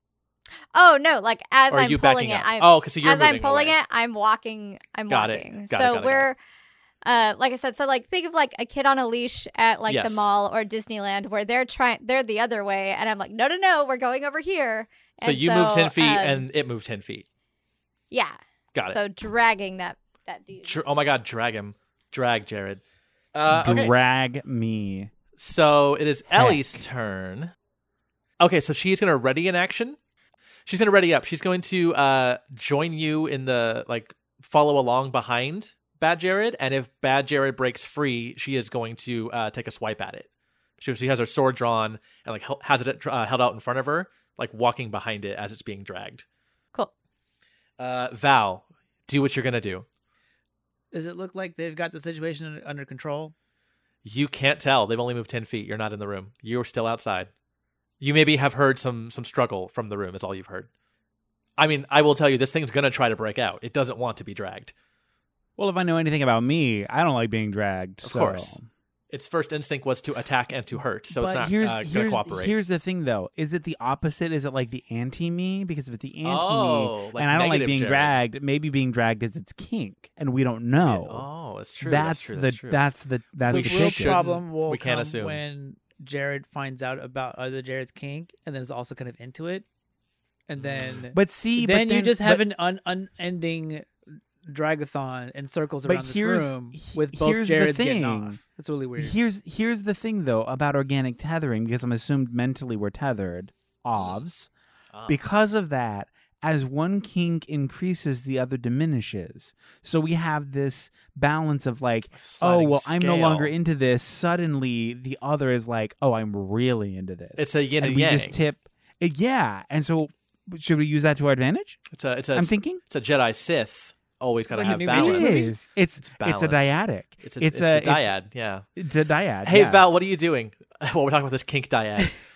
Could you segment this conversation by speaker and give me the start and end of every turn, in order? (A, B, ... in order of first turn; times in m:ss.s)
0:00.7-0:06.4 A
0:01.7-0:03.8 B
0:05.1-0:06.3 B
0:07.0-0:16.4 A
0:09.9-0:10.3 B
0:15.2-0:17.3 B
0:18.1-0:18.4 A
0:18.7-0:19.0 B
0:18.9-0:20.8 A
0:20.6-0:22.8 B
0:23.3-0:23.9 B
0:23.5-0:25.1 C
0:25.4-0:27.5 B
0:26.4-0:26.8 C
0:28.4-0:30.0 B
0:30.7-0:40.3 B
0:40.8-0:46.2 B
0:47.8-0:49.9 B
0:50.9-0:53.3 D
0:54.0-0:57.3 B
0:58.0-1:00.7 B
1:01.6-1:04.7 B
1:05.6-1:08.7 C
1:08.0-1:08.6 B
1:09.1-1:12.6 B
1:11.1-1:21.3 C
1:16.2-1:18.2 B
1:20.8-1:22.8 B
1:21.8-1:24.2 C
1:23.5-1:25.4 B
1:23.5-1:29.7 D
1:30.5-1:33.9 D
1:31.1-1:32.5 C
1:34.5-1:39.2 D
1:35.8-1:38.4 C
1:39.0-1:44.5 C
1:44.9-1:45.2 B
1:45.1-2:01.8 C
1:52.1-1:53.6 B
1:57.4-1:58.4 B
2:01.9-2:08.7 B
2:02.4-2:02.8 C
2:04.5-2:05.5 D
2:04.5-2:08.1 C
2:08.8-2:09.9 C
2:09.4-2:12.1 B